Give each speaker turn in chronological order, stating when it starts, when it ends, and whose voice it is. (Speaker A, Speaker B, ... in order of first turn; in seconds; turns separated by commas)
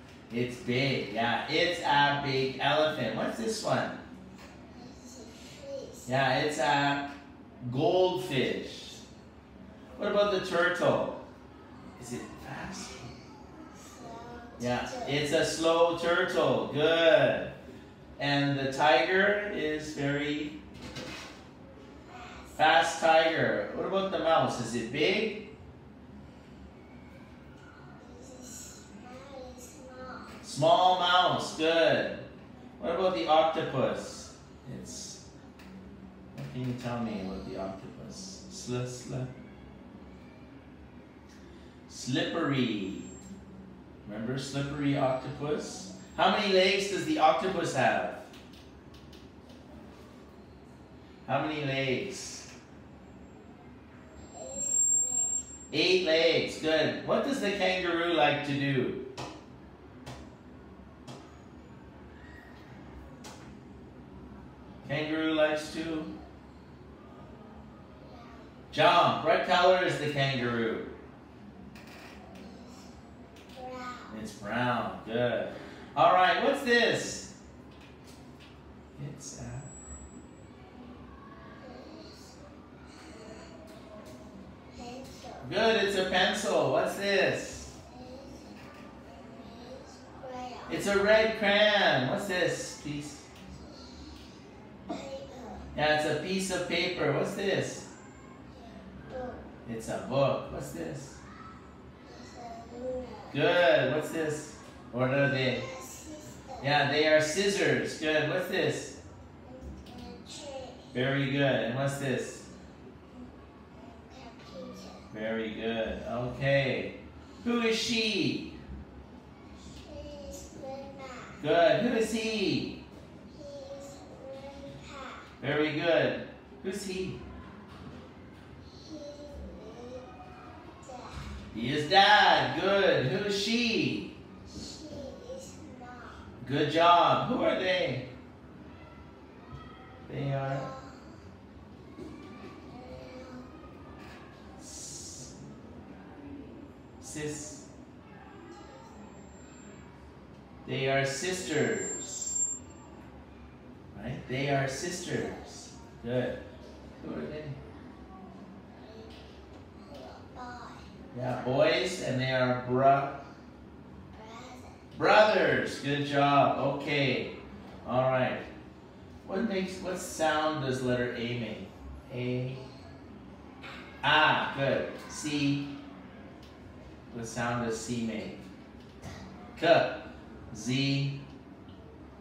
Speaker A: 0.3-4.0, Speaker B: 4.7-6.1, Speaker A: 6.1-7.1, Speaker A: 7.6-9.0, Speaker A: 10.0-11.2, Speaker A: 12.0-13.1, Speaker B: 13.8-15.4, Speaker A: 14.6-17.5, Speaker A: 18.2-20.6, Speaker B: 22.1-22.8, Speaker A: 22.6-25.5, Speaker B: 27.9-30.5, Speaker A: 30.4-32.2, Speaker A: 32.8-35.2, Speaker A: 36.3-39.3, Speaker B: 37.0-37.6, Speaker A: 41.9-43.1, Speaker A: 44.0-48.3, Speaker A: 51.3-52.5, Speaker B: 54.3-55.5, Speaker A: 55.7-59.0, Speaker A: 64.8-66.1, Speaker B: 68.1-68.4, Speaker A: 68.7-70.9, Speaker B: 72.3-72.9, Speaker B: 73.5-74.2, Speaker A: 74.1-77.3, Speaker A: 79.0-79.7, Speaker B: 81.6-82.3, Speaker B: 83.0-83.5, Speaker B: 84.7-85.5, Speaker A: 85.4-87.7, Speaker B: 87.9-88.5, Speaker B: 89.0-90.9, Speaker A: 90.7-93.2, Speaker B: 93.7-94.1, Speaker B: 94.9-95.7, Speaker A: 95.8-97.9, Speaker B: 98.5-99.5, Speaker A: 99.7-101.2, Speaker B: 102.0-103.4, Speaker A: 103.3-105.7, Speaker B: 105.3-106.8, Speaker A: 106.6-109.0, Speaker B: 109.4-111.0, Speaker A: 110.9-112.5, Speaker B: 113.1-115.1, Speaker A: 115.1-118.6, Speaker B: 119.7-121.4, Speaker A: 121.4-122.8, Speaker B: 123.3-125.3, Speaker A: 125.4-127.2, Speaker B: 128.7-130.1, Speaker B: 130.8-131.3, Speaker A: 131.5-134.1, Speaker B: 134.5-136.2, Speaker A: 136.4-138.1, Speaker A: 140.1-140.7, Speaker B: 140.4-141.1, Speaker B: 142.7-143.5, Speaker A: 144.6-145.3, Speaker A: 147.0-147.6, Speaker B: 148.5-149.0, Speaker A: 150.7-152.4, Speaker A: 153.9-156.4, Speaker B: 155.2-155.6, Speaker A: 157.0-157.6, Speaker B: 158.7-159.2, Speaker B: 159.8-161.5, Speaker A: 161.1-163.2, Speaker B: 164.1-164.9, Speaker A: 164.9-168.4, Speaker A: 169.2-172.6, Speaker A: 174.0-175.7, Speaker A: 177.1-178.4, Speaker A: 179.6-180.0, Speaker A: 180.5-181.2